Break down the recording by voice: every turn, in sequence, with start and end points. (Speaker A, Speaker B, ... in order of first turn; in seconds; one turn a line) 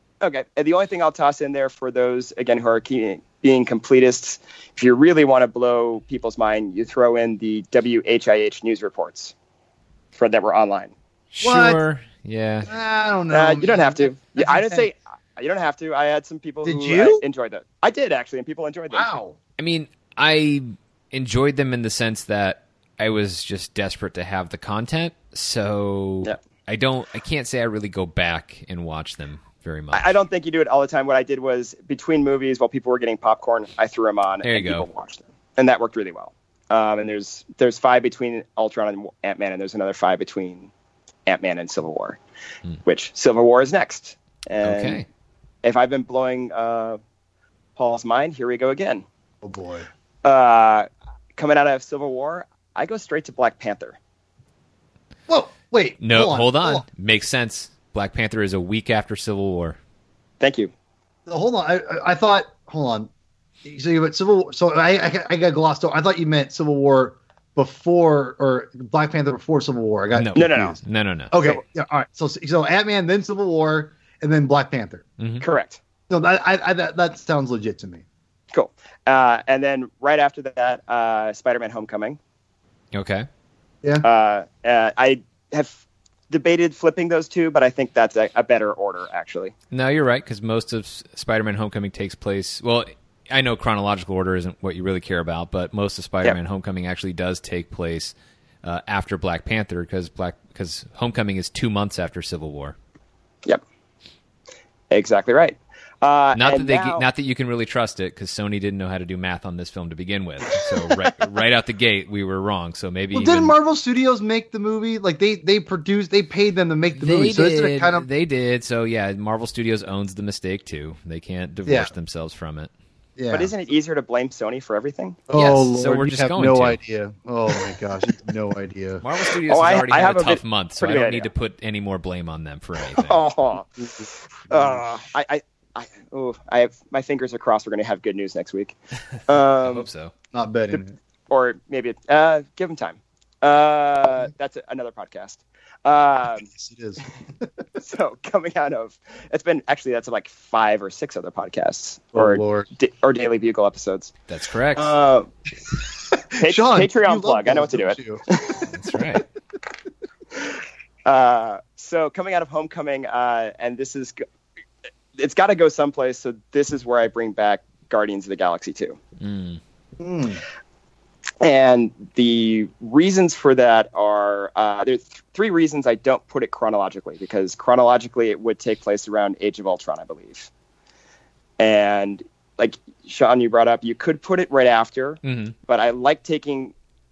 Speaker A: 0.2-9.3
Speaker A: 10.2-10.9
Speaker B: 11.3-12.7
Speaker C: 11.4-11.8
Speaker C: 12.7-14.9
Speaker A: 13.3-19.1
Speaker C: 16.6-17.2
Speaker C: 18.9-19.4
Speaker B: 19.6-30.2
Speaker A: 29.9-40.7
Speaker B: 34.4-34.9
Speaker A: 41.3-42.2
Speaker A: 42.9-45.0
Speaker B: 44.6-45.1
Speaker A: 45.6-47.0
Speaker A: 47.8-49.0
Speaker C: 49.4-49.9
Speaker A: 50.2-54.0
Speaker C: 55.3-56.9
Speaker B: 56.0-59.8
Speaker A: 60.4-60.7
Speaker C: 61.3-63.1
Speaker C: 63.6-70.8
Speaker B: 70.2-71.4
Speaker A: 70.3-70.8
Speaker C: 71.3-75.0
Speaker B: 75.2-75.5
Speaker A: 75.4-75.8
Speaker C: 76.1-78.0
Speaker A: 78.5-82.2
Speaker B: 82.9-83.3
Speaker A: 84.0-89.5
Speaker B: 89.7-102.8
Speaker A: 104.9-107.0
Speaker B: 106.4-113.5
Speaker C: 113.1-118.1
Speaker B: 117.0-122.7
Speaker C: 121.7-121.9
Speaker C: 123.2-123.5
Speaker A: 123.3-125.2
Speaker C: 125.3-129.0
Speaker B: 125.4-126.8
Speaker B: 129.0-133.2
Speaker A: 129.5-131.3
Speaker A: 132.9-133.8
Speaker C: 134.0-134.8
Speaker A: 134.5-138.8
Speaker A: 139.3-139.9
Speaker B: 139.6-140.1
Speaker C: 140.3-140.9
Speaker A: 140.7-146.5
Speaker C: 146.5-147.5
Speaker A: 147.8-154.1
Speaker C: 152.1-152.7
Speaker B: 154.3-154.9
Speaker A: 154.8-155.3
Speaker A: 156.3-158.7
Speaker C: 156.4-158.2
Speaker B: 158.6-159.3
Speaker A: 160.4-164.2
Speaker A: 165.2-169.0
Speaker B: 169.2-169.6
Speaker C: 170.0-170.4
Speaker A: 171.4-180.5
Speaker A: 181.6-186.7
Speaker B: 185.2-185.5